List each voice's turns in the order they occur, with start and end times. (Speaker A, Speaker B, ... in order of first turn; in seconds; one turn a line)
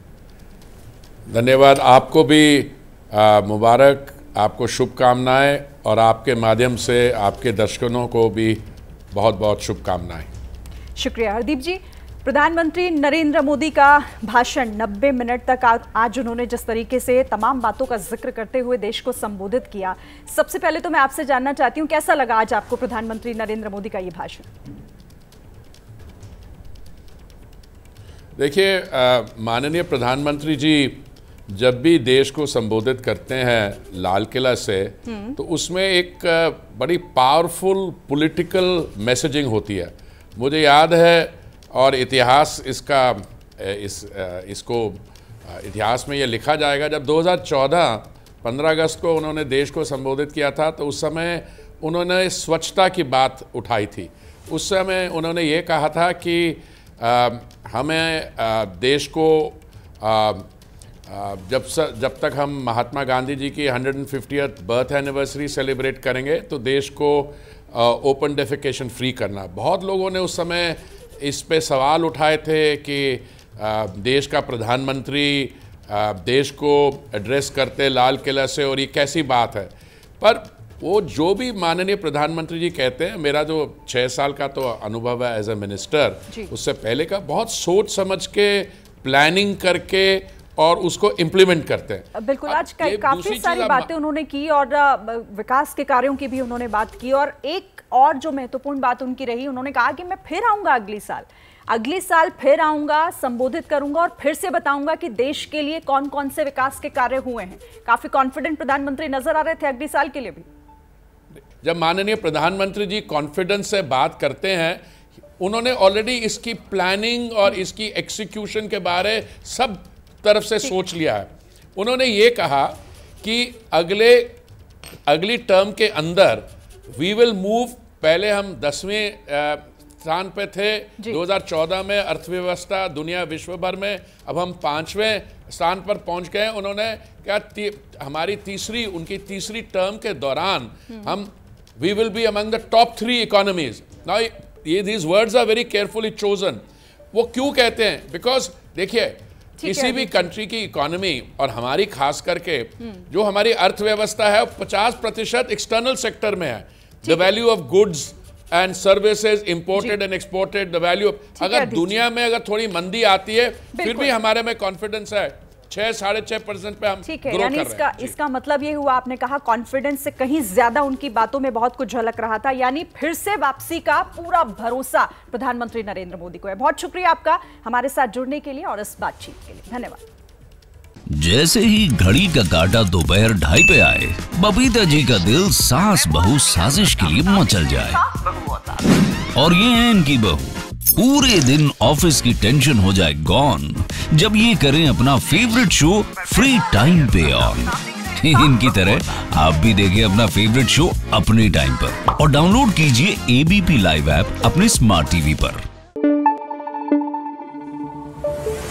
Speaker A: 1.3-10.3
Speaker B: 10.9-24.5
Speaker A: 28.4-60.5
Speaker B: 35.1-35.3
Speaker A: 61.1-93.9
Speaker B: 92.2-110.5
Speaker A: 111.6-114.8
Speaker A: 115.4-124.4
Speaker A: 125.1-168.1
Speaker B: 149.6-150.2
Speaker B: 161.4-161.9
Speaker B: 163.7-164.1
Speaker B: 167.0-180.0
Speaker C: 181.1-188.1
Speaker C: 189.3-205.6